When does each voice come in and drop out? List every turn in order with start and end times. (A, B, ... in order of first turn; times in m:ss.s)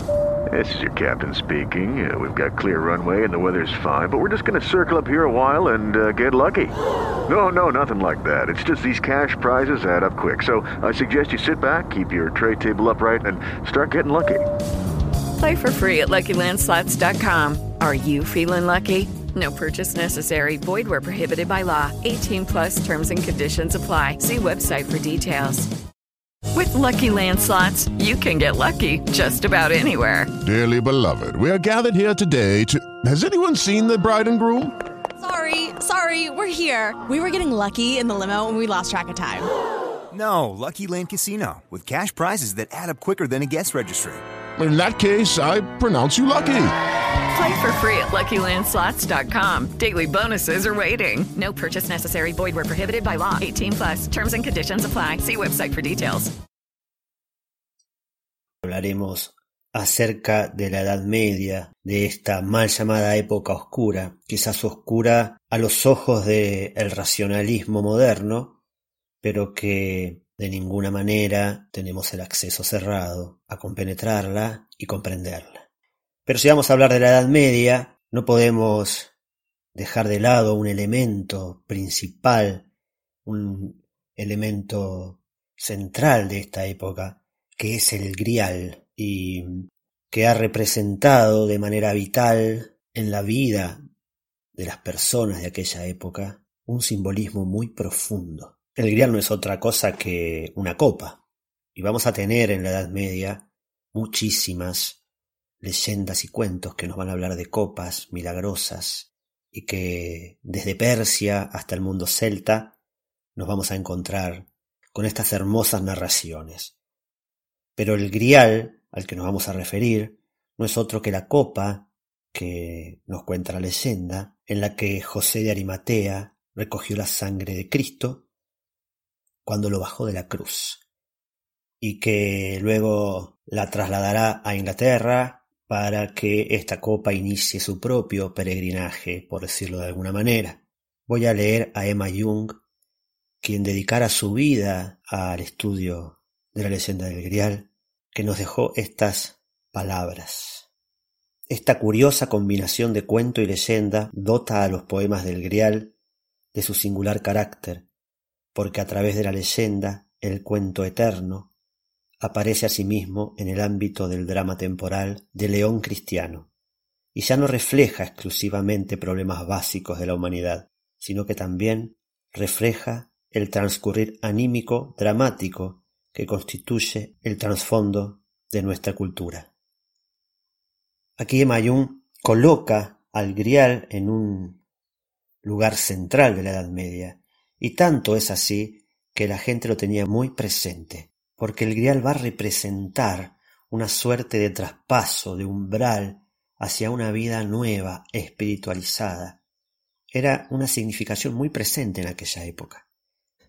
0:00.5-0:06.7 A
0:07.3-0:14.4 A
0:15.4-0:25.7 B
0:26.5-0:30.3 B
0:30.4-0:34.7 C
0:35.2-0:39.5 D
0:40.1-0:44.2 E
0:44.6-0:46.7 C
0:47.3-0:56.3 B
0:58.6-1:08.6 F
1:09.2-1:15.7 F
1:16.2-1:19.1 F
1:19.8-1:22.7 F
1:23.2-1:33.8 F
1:34.5-1:41.2 F
1:41.8-1:45.0 F
1:45.6-1:52.8 F
1:53.3-1:56.8 F
1:57.8-2:08.3 F
2:09.4-2:10.8 F
2:11.8-2:22.6 F
2:23.4-2:30.7 F
2:31.5-2:35.9 F
2:36.5-2:37.9 F
2:38.5-2:41.5 F
2:42.2-2:46.5 F
2:47.1-2:59.5 F
3:01.2-3:04.6 F
3:05.4-3:19.4 F
3:20.1-3:22.8 F